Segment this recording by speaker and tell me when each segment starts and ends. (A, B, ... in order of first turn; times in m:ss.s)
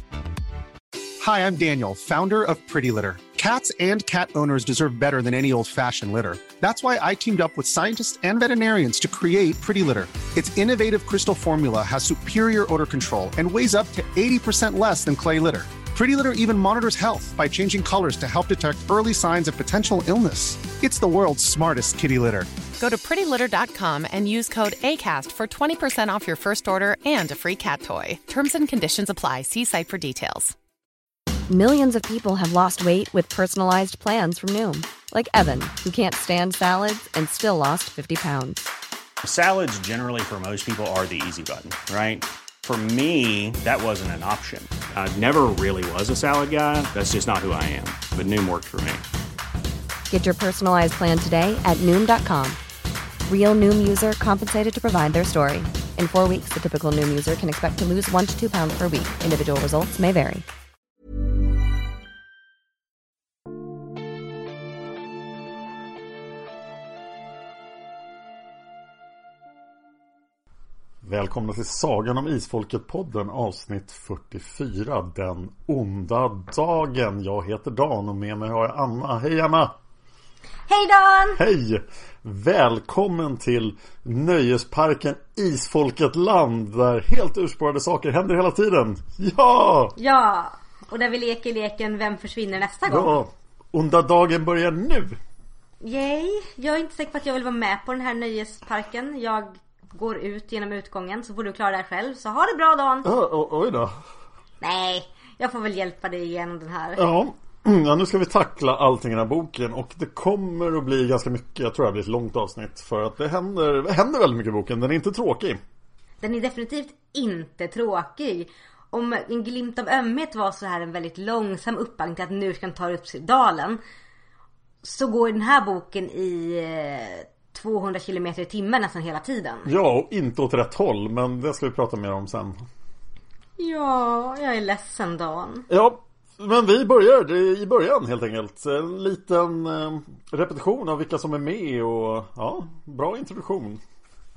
0:01.2-0:22.5 A
0:22.8-0:30.6 B
0:31.5-0:38.6 C
0:39.3-0:40.6 D
0:41.2-0:42.9 D
0:44.9-0:47.4 D
0:48.0-0:48.8 D
0:50.1-0:52.6 C
0:53.3-1:00.4 C
1:11.0-1:19.7 E
1:20.7-1:21.4 F
1:21.4-1:29.9 E
1:30.0-1:33.2 F
1:32.9-1:35.2 E
1:35.8-1:43.1 F
1:43.0-1:44.0 E
1:44.6-1:47.0 F
1:47.0-1:55.6 E
1:56.2-2:03.8 F
2:04.8-2:09.7 F
2:09.6-2:12.6 E
2:13.6-2:15.7 F
2:15.7-2:23.8 E